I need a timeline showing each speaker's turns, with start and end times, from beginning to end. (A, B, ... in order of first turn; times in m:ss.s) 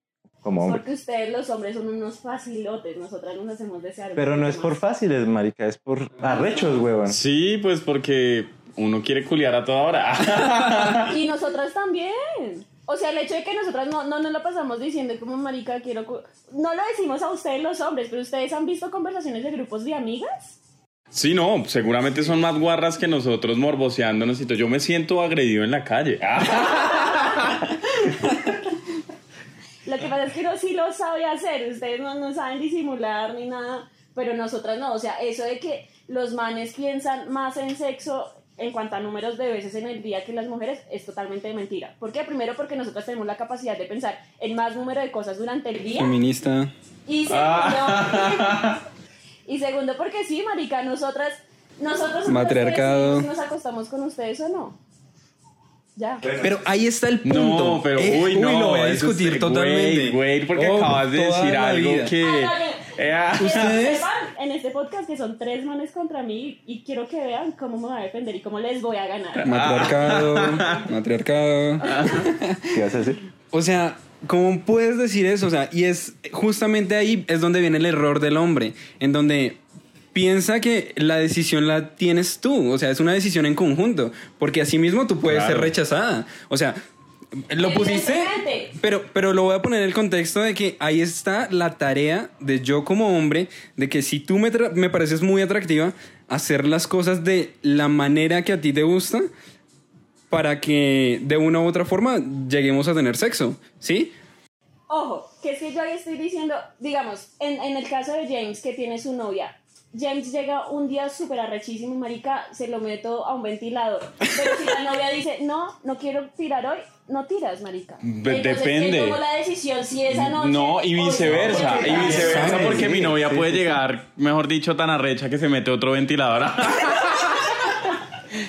0:00.4-0:00.8 A
0:00.6-0:04.8 B
0:04.2-0:07.2 A
0:07.1-0:11.1 C
0:11.0-0:20.6 B
0:21.1-0:27.7 C
0:29.8-0:46.2 B
0:46.0-0:46.7 D
0:47.1-0:48.8 B
0:47.3-0:48.8 C
0:49.5-0:54.8 B
0:52.3-0:53.3 D
0:56.0-0:56.2 B
0:56.2-0:56.6 A
0:56.4-1:02.1 D
0:57.2-1:03.9 C
1:02.2-1:09.6 B
1:03.5-1:04.0 D
1:09.4-1:10.8 C
1:09.4-1:12.7 D
1:11.8-1:12.3 C
1:12.7-1:13.2 A
1:13.5-1:19.6 D
1:20.1-1:26.8 D
1:25.2-1:25.7 C
1:27.5-1:39.3 D
1:27.6-1:28.7 B
1:40.3-1:44.1 D
1:44.9-2:02.8 B
1:58.0-1:59.2 C
2:00.1-2:07.5 C
2:01.2-2:03.8 A
2:02.0-2:02.9 D